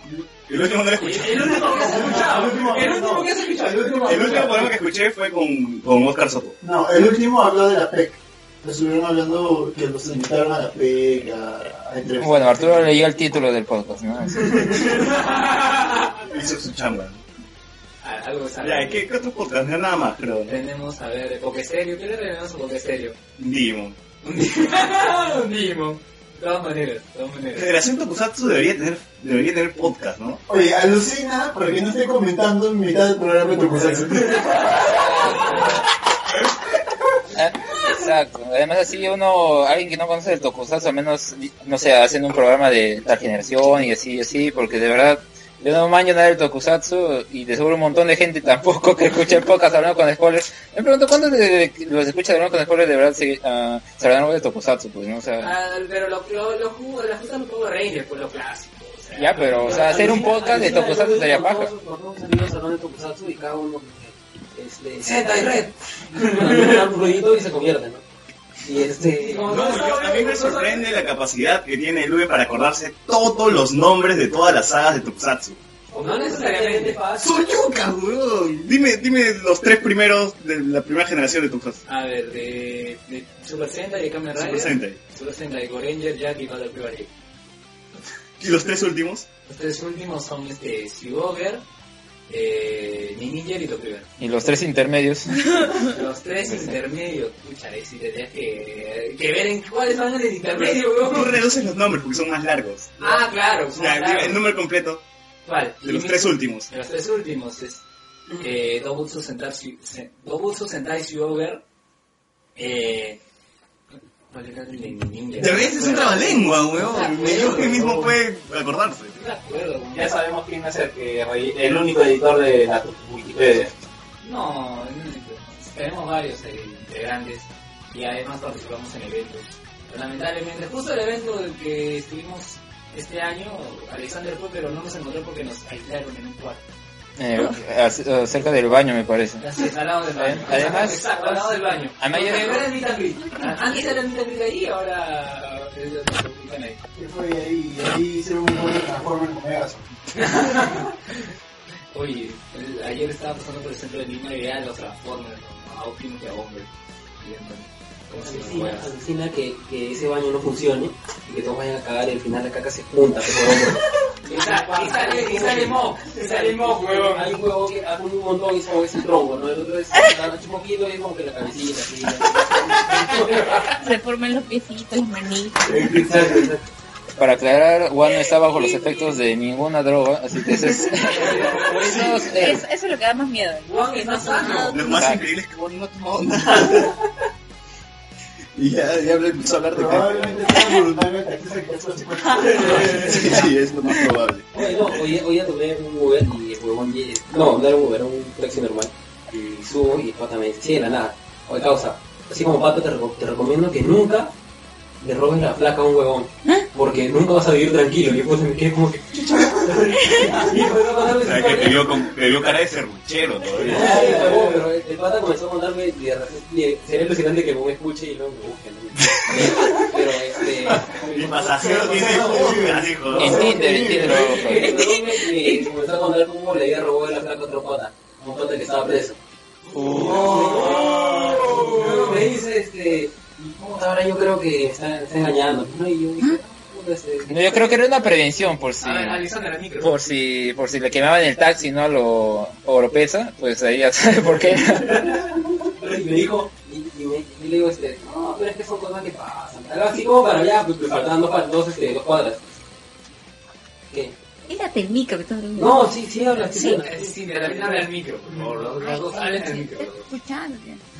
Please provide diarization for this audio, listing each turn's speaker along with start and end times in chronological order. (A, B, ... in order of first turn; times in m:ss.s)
0:00.5-0:02.2 A
0:00.9-0:04.5 B
0:01.6-0:04.7 C
0:04.0-0:06.6 A
0:06.6-0:12.8 C
0:12.2-0:14.9 D
0:14.8-0:15.9 B
0:16.2-0:17.2 A
0:18.0-0:19.0 B
0:18.6-0:20.5 A
0:20.5-0:23.2 B
0:23.4-0:24.0 A
0:24.2-0:27.7 B
0:27.5-0:30.4 A
0:30.5-0:34.4 C
0:34.4-0:35.7 B
0:34.7-0:35.8 D
0:37.3-0:55.5 D
0:55.4-1:00.6 B
0:59.2-1:01.7 D
0:59.6-1:08.0 E
1:05.0-1:06.8 B
1:08.6-1:09.7 E
1:09.0-1:10.9 B
1:09.4-1:15.6 A
1:15.9-1:17.4 E
1:15.9-1:17.0 B
1:17.2-1:21.8 A
1:21.9-1:27.1 B
1:24.3-1:25.0 A
1:28.4-1:29.2 A
1:29.5-1:31.6 B
1:32.3-1:34.1 B
1:34.2-1:35.8 D
1:35.8-1:41.4 B
1:36.4-1:36.8 D
1:40.5-1:45.0 A
1:43.0-1:44.5 B
1:45.4-1:47.8 B
1:45.8-1:46.7 A
1:48.3-1:51.6 B
1:52.6-1:53.2 B
1:54.3-1:58.2 B
1:55.4-1:59.2 A
1:59.1-2:00.1 B
2:00.4-2:01.8 F
2:02.4-2:03.6 F
2:04.2-2:16.6 B
2:17.2-2:19.4 D
2:19.4-2:26.8 B
2:20.2-2:21.1 D
2:22.0-2:22.7 D
2:23.3-2:24.0 G
2:26.9-2:29.8 C
2:30.1-2:31.0 B
2:31.9-2:36.7 B
2:37.2-2:38.9 B
2:38.1-2:53.5 E
2:44.2-2:47.3 B
2:53.7-2:55.8 G
2:55.6-2:56.6 E
2:57.2-3:02.6 D
2:58.5-2:58.8 G
3:01.0-3:02.1 B
3:01.8-3:02.4 A
3:02.3-3:05.0 G
3:03.6-3:04.9 B
3:04.7-3:07.0 A
3:04.8-3:05.3 D
3:08.6-3:10.6 A
3:09.7-3:13.5 C
3:12.6-3:14.7 A
3:14.5-3:24.3 E
3:25.0-3:31.9 E
3:30.0-3:30.3 G
3:31.2-3:34.0 A
3:33.6-3:49.2 E
3:33.7-3:34.6 B
3:41.1-3:43.6 A
3:41.6-3:44.3 C
3:43.2-3:44.7 D
3:44.1-3:45.0 B
3:44.8-3:45.6 G
3:49.7-3:50.2 D
3:49.8-3:57.6 E
3:50.2-3:52.2 B
3:57.2-3:59.2 D
3:58.8-4:00.0 B
3:59.8-4:05.2 D
4:04.8-4:12.4 E
4:13.9-4:14.2 E
4:14.4-4:15.9 G
4:15.5-4:19.2 E
4:16.5-4:16.8 G
4:16.8-4:19.9 B
4:18.7-4:20.8 G